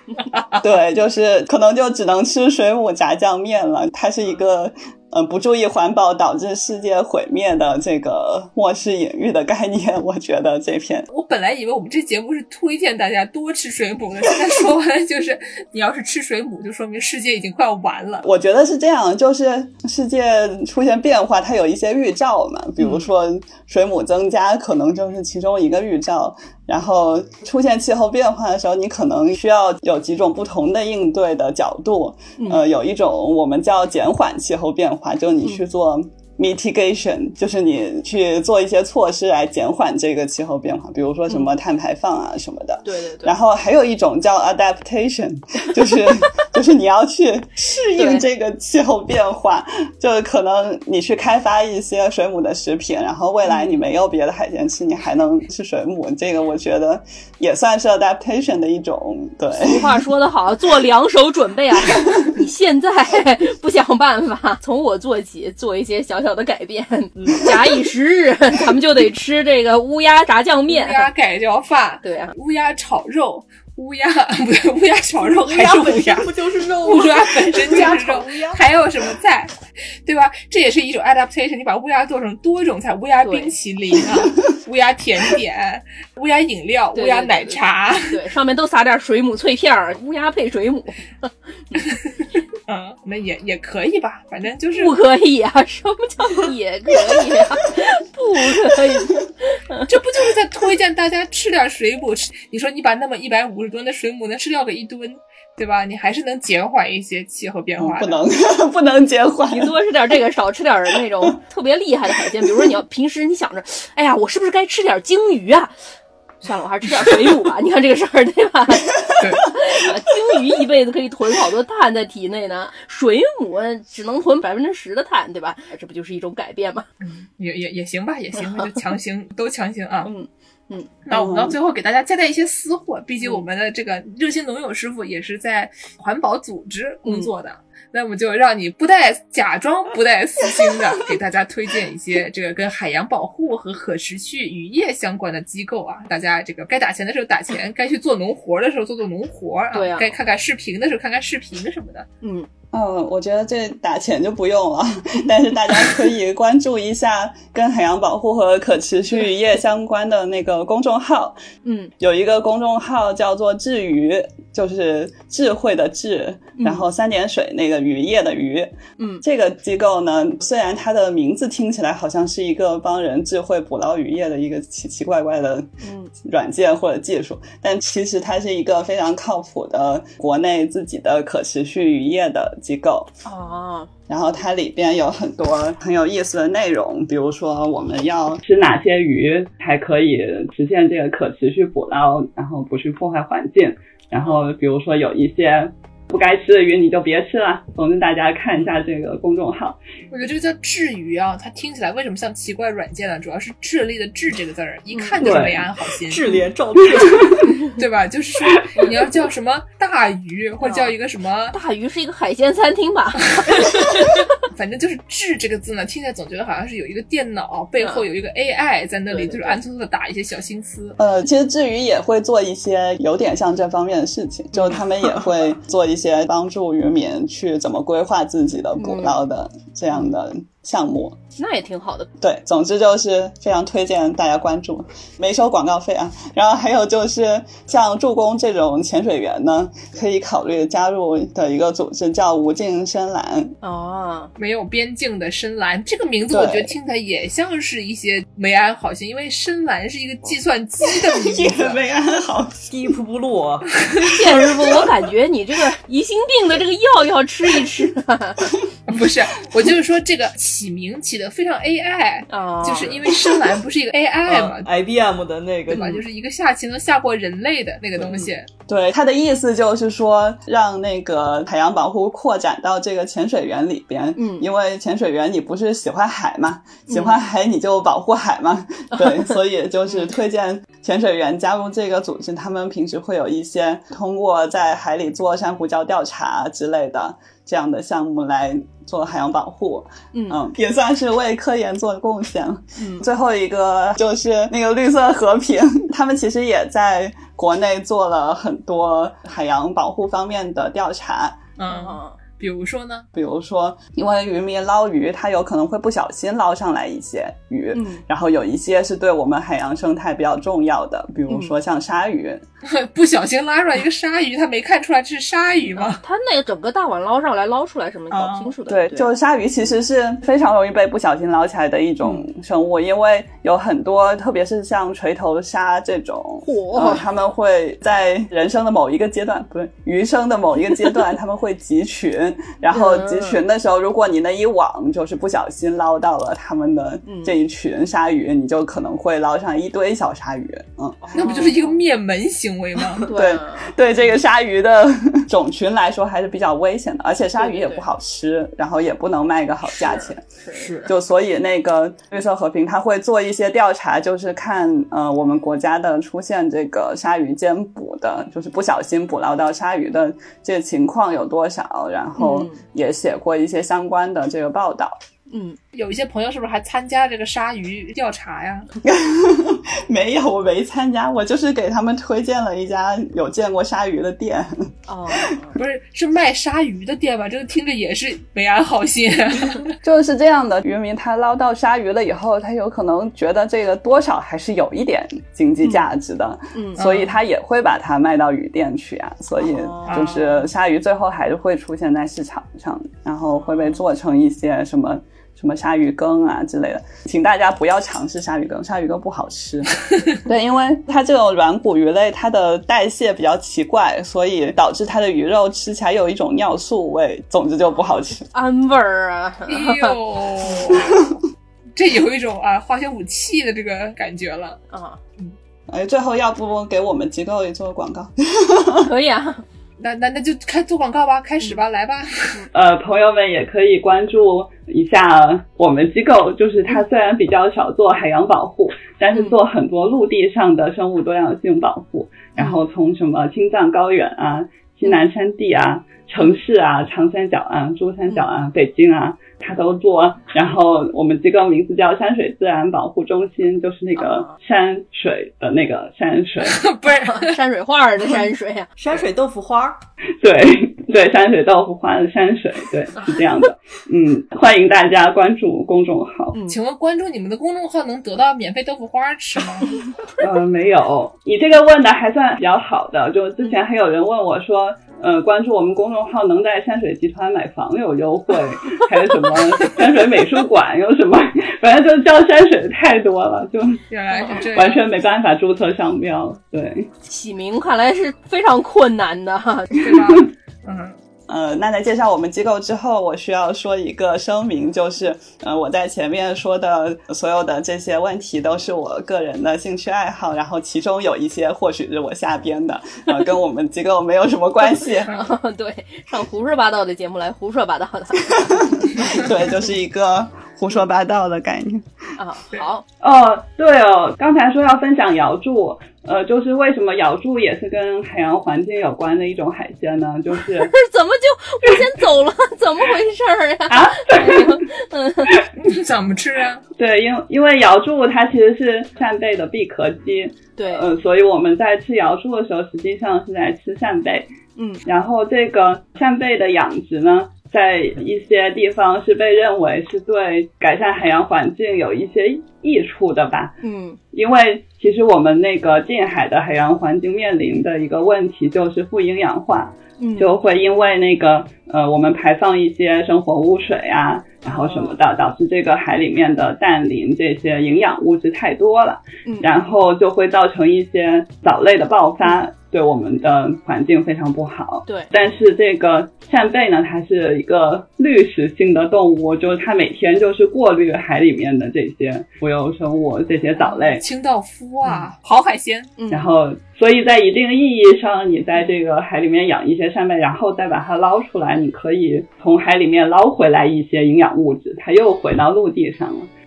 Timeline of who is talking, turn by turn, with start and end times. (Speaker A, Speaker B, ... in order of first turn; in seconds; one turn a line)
Speaker A: 0.3-0.6
Speaker B: 0.6-11.1
Speaker A: 11.1-18.2
Speaker B: 18.2-60.0
Speaker C: 22.8-23.1
Speaker C: 42.9-43.4
Speaker C: 48.0-48.2
Speaker C: 53.5-53.8
Speaker C: 59.5-71.1
Speaker D: 67.2-67.5
Speaker A: 70.7-88.2
Speaker C: 72.0-72.3
Speaker D: 75.2-78.6
Speaker C: 83.2-83.5
Speaker C: 86.9-91.8
Speaker A: 92.7-95.0
Speaker C: 94.8-99.9
Speaker A: 99.9-108.2
Speaker B: 107.8-109.8
Speaker C: 109.5-115.8
Speaker C: 116.4-126.9
Speaker A: 119.2-119.5
Speaker A: 127.0-130.1
Speaker C: 130.1-131.1
Speaker A: 131.1-152.1
Speaker B: 131.1-131.5
Speaker C: 137.0-137.3
Speaker C: 149.7-150.1
Speaker C: 152.2-152.5
Speaker B: 152.7-161.4
Speaker C: 161.6-161.9
Speaker B: 162.0-183.1
Speaker C: 166.6-166.8
Speaker C: 169.0-169.2
Speaker C: 175.8-176.1
Speaker C: 183.2-183.9
Speaker B: 184.1-199.8
Speaker A: 200.1-206.3
Speaker C: 204.9-205.2
Speaker D: 205.2-207.6
Speaker A: 207.7-211.6
Speaker C: 210.6-210.9
Speaker C: 211.5-214.3
Speaker A: 213.4-221.0
Speaker C: 217.8-218.1
Speaker C: 219.1-219.6
Speaker B: 221.0-231.2
Speaker C: 228.8-229.2
Speaker C: 231.4-232.1
Speaker B: 232.2-243.6
Speaker C: 243.6-244.3
Speaker A: 244.4-251.8
Speaker B: 246.3-246.7
Speaker B: 250.8-252.7
Speaker D: 252.7-253.7
Speaker A: 253.8-254.6
Speaker C: 253.9-258.4
Speaker A: 258.9-264.7
Speaker C: 262.3-263.0
Speaker D: 264.3-265.9
Speaker C: 265.7-266.0
Speaker A: 265.7-268.5
Speaker C: 268.0-268.3
Speaker B: 268.7-301.4
Speaker C: 274.2-274.5
Speaker C: 276.9-277.2
Speaker C: 278.9-279.2
Speaker C: 290.1-290.4
Speaker A: 301.6-303.1
Speaker C: 301.7-302.2
Speaker B: 303.1-312.4
Speaker C: 307.7-308.0
Speaker A: 312.6-316.0
Speaker C: 315.8-319.1
Speaker A: 318.1-318.5
Speaker B: 318.7-341.2
Speaker C: 326.4-327.1
Speaker C: 332.7-333.4
Speaker C: 337.1-337.4
Speaker C: 341.0-341.8
Speaker A: 341.2-343.1
Speaker C: 343.1-343.8
Speaker B: 343.1-365.0
Speaker C: 347.4-347.8
Speaker C: 349.8-350.9
Speaker D: 350.6-350.9
Speaker C: 362.2-362.6
Speaker C: 365.3-365.6
Speaker A: 365.7-368.7
Speaker B: 368.8-375.3
Speaker C: 374.9-375.6
Speaker A: 375.6-379.8
Speaker B: 379.8-408.3
Speaker C: 386.5-386.9
Speaker A: 386.8-387.1
Speaker C: 389.4-390.1
Speaker A: 389.9-390.3
Speaker C: 393.5-393.8
Speaker C: 408.3-410.0
Speaker A: 409.5-411.2
Speaker B: 410.7-411.1
Speaker A: 411.8-414.6
Speaker C: 414.7-415.0
Speaker B: 415.7-418.9
Speaker C: 418.8-419.4
Speaker A: 419.8-422.4
Speaker B: 422.5-446.6
Speaker C: 444.0-444.3
Speaker A: 446.4-447.4
Speaker C: 446.9-448.7
Speaker D: 448.8-449.8
Speaker B: 450.2-456.4
Speaker C: 456.3-456.6
Speaker A: 456.5-459.8
Speaker B: 460.2-473.8
Speaker A: 473.9-474.9
Speaker B: 474.4-476.9
Speaker C: 477.1-480.0
Speaker A: 479.8-481.0
Speaker B: 481.3-495.1
Speaker C: 495.1-499.3
Speaker B: 498.2-501.9
Speaker C: 502.2-502.8
Speaker B: 503.0-510.7
Speaker C: 510.6-515.4
Speaker B: 513.7-514.6
Speaker A: 515.6-516.6
Speaker B: 516.8-524.3
Speaker C: 520.6-520.9
Speaker C: 524.6-524.9
Speaker B: 524.9-533.6
Speaker C: 533.6-534.0
Speaker B: 534.1-564.0
Speaker C: 540.0-540.3
Speaker C: 544.5-545.0
Speaker A: 563.6-565.9
Speaker C: 566.0-566.3
Speaker B: 566.1-576.3